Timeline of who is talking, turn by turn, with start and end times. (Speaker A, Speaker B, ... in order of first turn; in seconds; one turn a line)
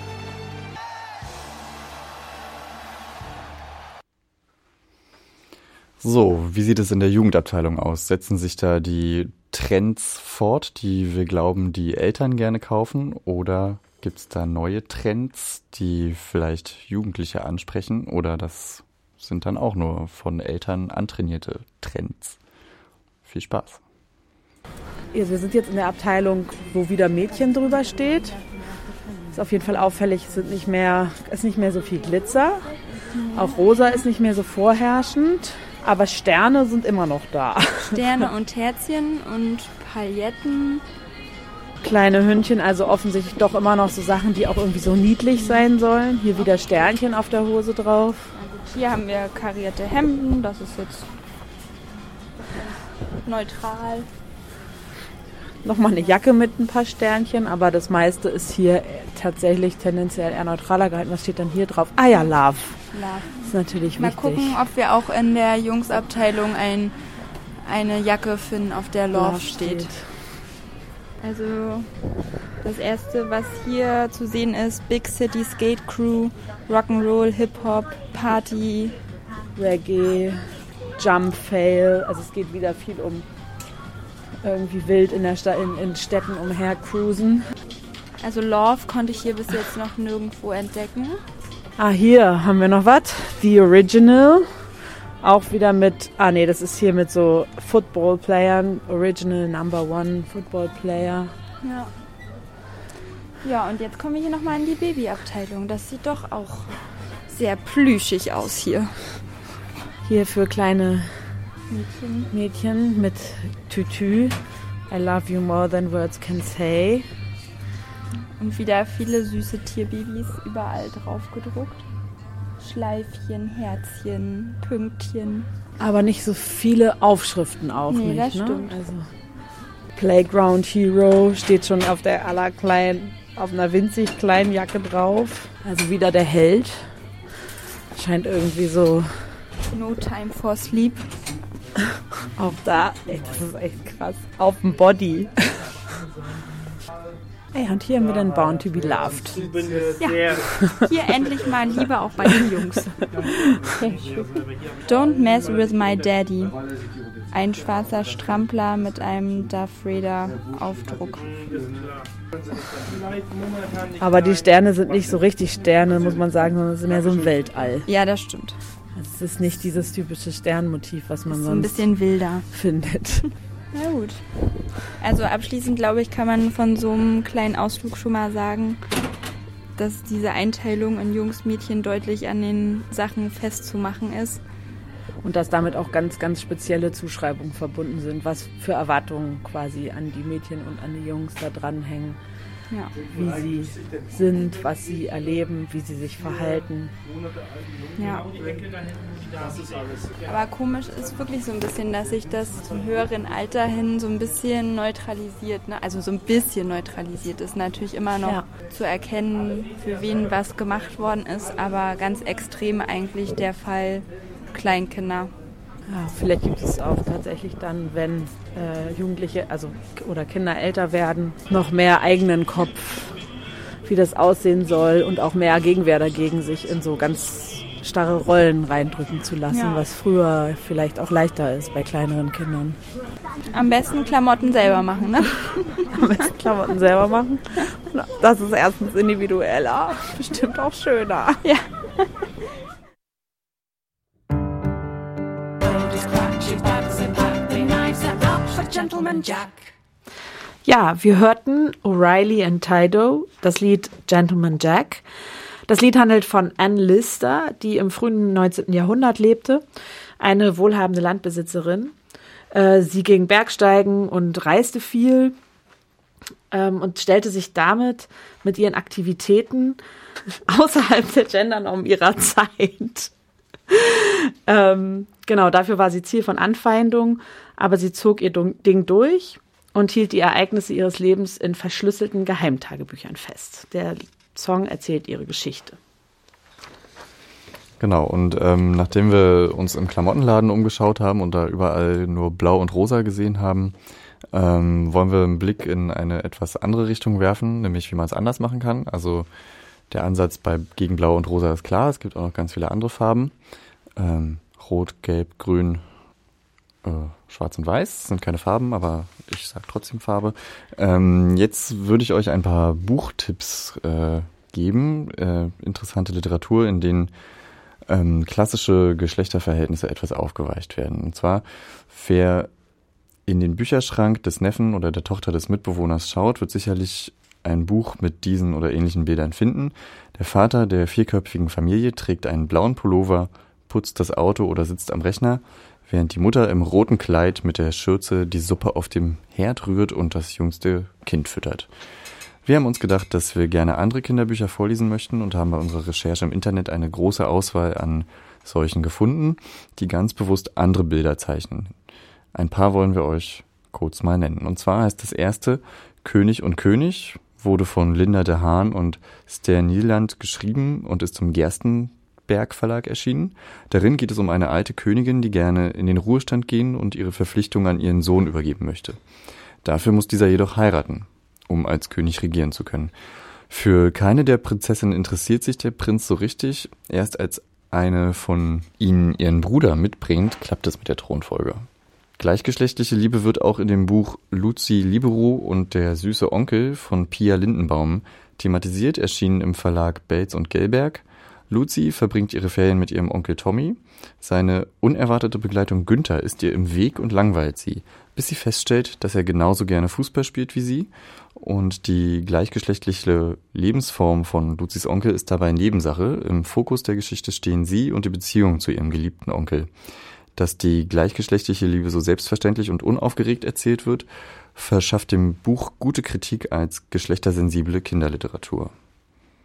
Speaker A: 6.0-22.4
Speaker A: 23.2-23.8
Speaker B: 25.1-28.4
Speaker B: 29.3-32.7
Speaker C: 33.1-33.6
Speaker B: 33.3-38.3
Speaker C: 37.9-40.8
Speaker B: 41.8-48.3
Speaker C: 48.4-51.1
Speaker C: 52.5-54.1
Speaker B: 55.6-62.8
Speaker C: 62.9-63.4
Speaker B: 63.4-64.6
Speaker C: 64.0-66.9
Speaker C: 67.6-69.9
Speaker B: 69.1-70.2
Speaker C: 71.2-71.9
Speaker C: 72.6-78.9
Speaker B: 79.5-83.2
Speaker B: 84.4-87.5
Speaker C: 88.2-91.2
Speaker B: 91.8-94.5
Speaker B: 95.2-101.3
Speaker C: 101.6-101.9
Speaker C: 103.4-109.0
Speaker B: 110.0-111.3
Speaker C: 111.7-112.3
Speaker B: 112.3-114.4
Speaker B: 114.9-117.0
Speaker C: 118.4-121.8
Speaker C: 122.6-125.5
Speaker B: 125.8-129.1
Speaker C: 127.9-128.8
Speaker B: 129.9-136.9
Speaker B: 137.9-139.4
Speaker C: 139.7-141.1
Speaker B: 142.3-145.8
Speaker B: 147.5-149.5
Speaker C: 150.0-153.1
Speaker B: 150.6-150.9
Speaker C: 154.8-156.6
Speaker C: 157.3-161.3
Speaker B: 164.0-167.9
Speaker C: 167.9-168.6
Speaker B: 168.9-171.9
Speaker C: 171.3-172.5
Speaker B: 172.5-173.3
Speaker C: 173.7-174.2
Speaker C: 174.8-178.8
Speaker C: 179.8-184.4
Speaker B: 185.2-192.2
Speaker B: 193.1-196.9
Speaker C: 198.0-198.3
Speaker C: 200.2-215.3
Speaker B: 215.9-223.2
Speaker B: 223.8-232.8
Speaker C: 229.5-229.8
Speaker C: 233.5-235.9
Speaker B: 235.9-241.4
Speaker C: 241.4-242.2
Speaker B: 247.4-249.5
Speaker C: 248.7-249.0
Speaker B: 250.6-255.0
Speaker B: 255.7-259.6
Speaker B: 260.2-261.9
Speaker B: 262.5-265.3
Speaker B: 266.5-269.8
Speaker B: 270.5-273.1
Speaker B: 273.7-285.8
Speaker A: 287.8-293.7
Speaker A: 294.3-299.3
Speaker A: 299.9-303.3
Speaker A: 303.9-305.8
Speaker A: 306.8-317.1
Speaker A: 317.9-322.5
Speaker A: 323.2-341.7
Speaker A: 342.4-351.7
Speaker A: 352.3-369.0
Speaker A: 369.6-372.9
Speaker A: 373.5-381.7
Speaker A: 382.2-409.7
Speaker A: 410.4-418.7